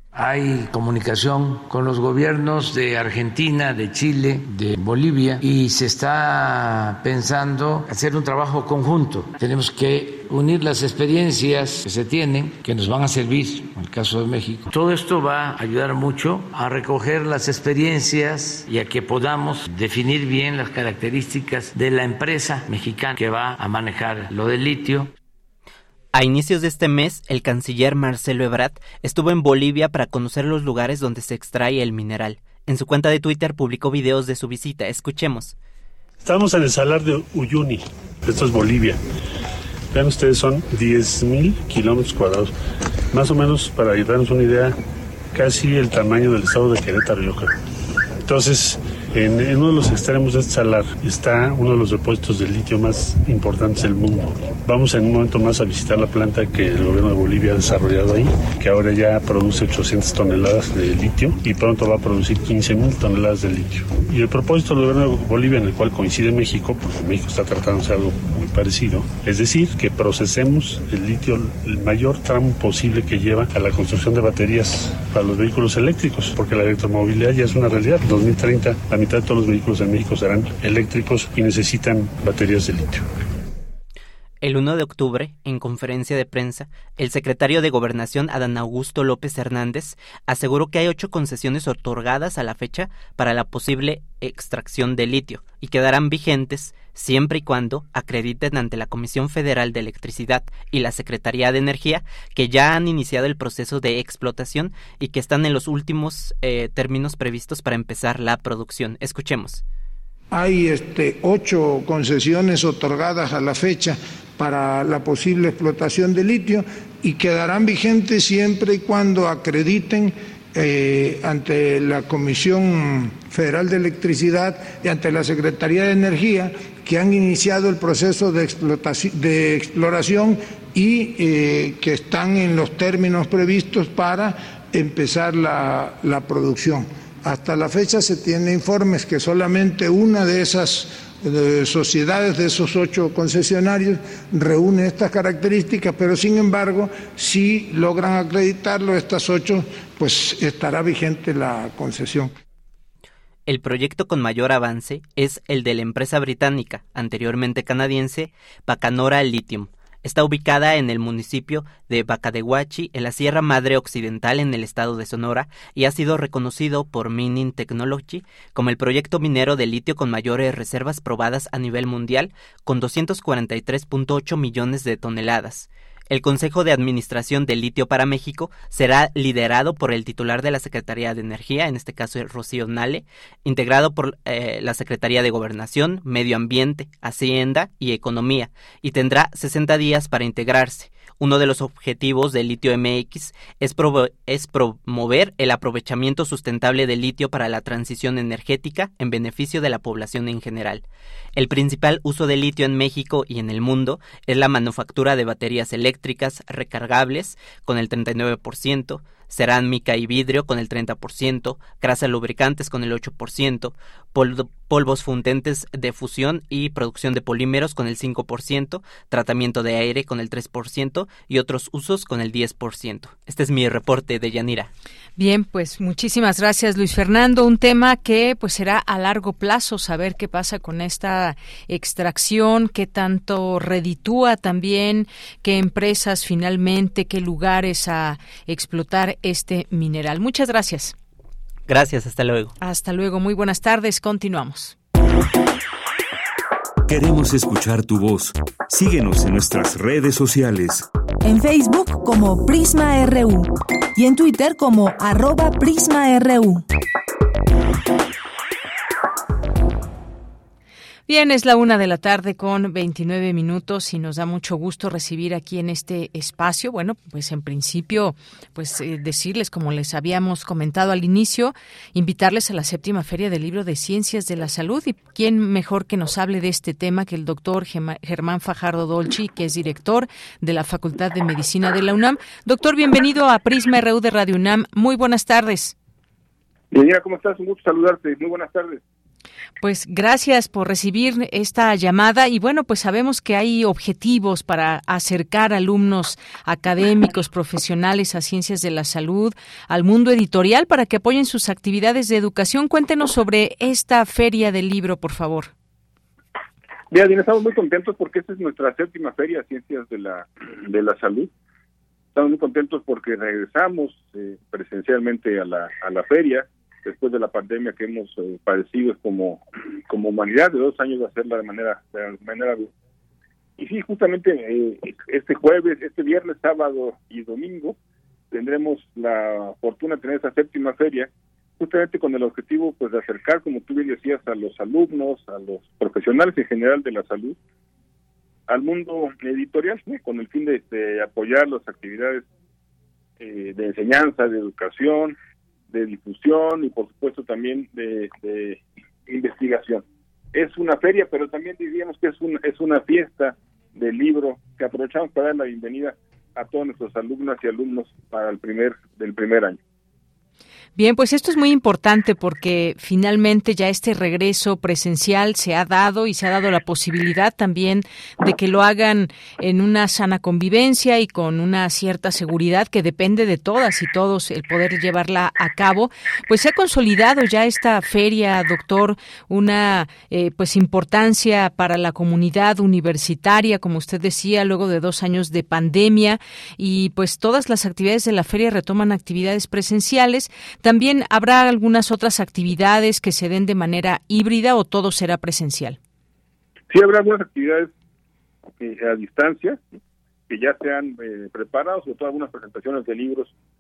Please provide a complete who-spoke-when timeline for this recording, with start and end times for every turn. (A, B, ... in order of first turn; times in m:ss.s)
0:00.1-0:25.1 A
0:26.1-0:35.6 B
0:36.2-0:39.0 C
0:39.9-0:42.5 C
0:43.1-0:44.8 C
0:45.3-0:47.5 C
0:48.2-1:23.0 C
1:24.4-1:49.6 B
1:50.3-2:32.3 D
2:33.5-3:20.8 B
3:21.4-3:44.7 B
3:45.2-4:00.9 E
4:01.7-4:02.5 B
4:02.6-4:04.8 E
4:06.9-4:10.9 F
4:11.2-4:16.6 G
4:21.1-4:45.7 E
4:46.7-4:48.8 H
4:49.6-5:05.5 E
5:06.9-5:11.3 H
5:12.1-5:22.7 H
5:23.6-5:27.8 H
5:28.3-5:37.4 H
5:38.5-5:42.2 H
5:43.2-5:45.2 H
5:45.7-5:49.8 H
5:50.3-5:59.6 H
6:00.8-6:35.8 E
6:36.7-6:37.7 H
6:38.6-6:39.6 H
6:40.3-6:43.3 H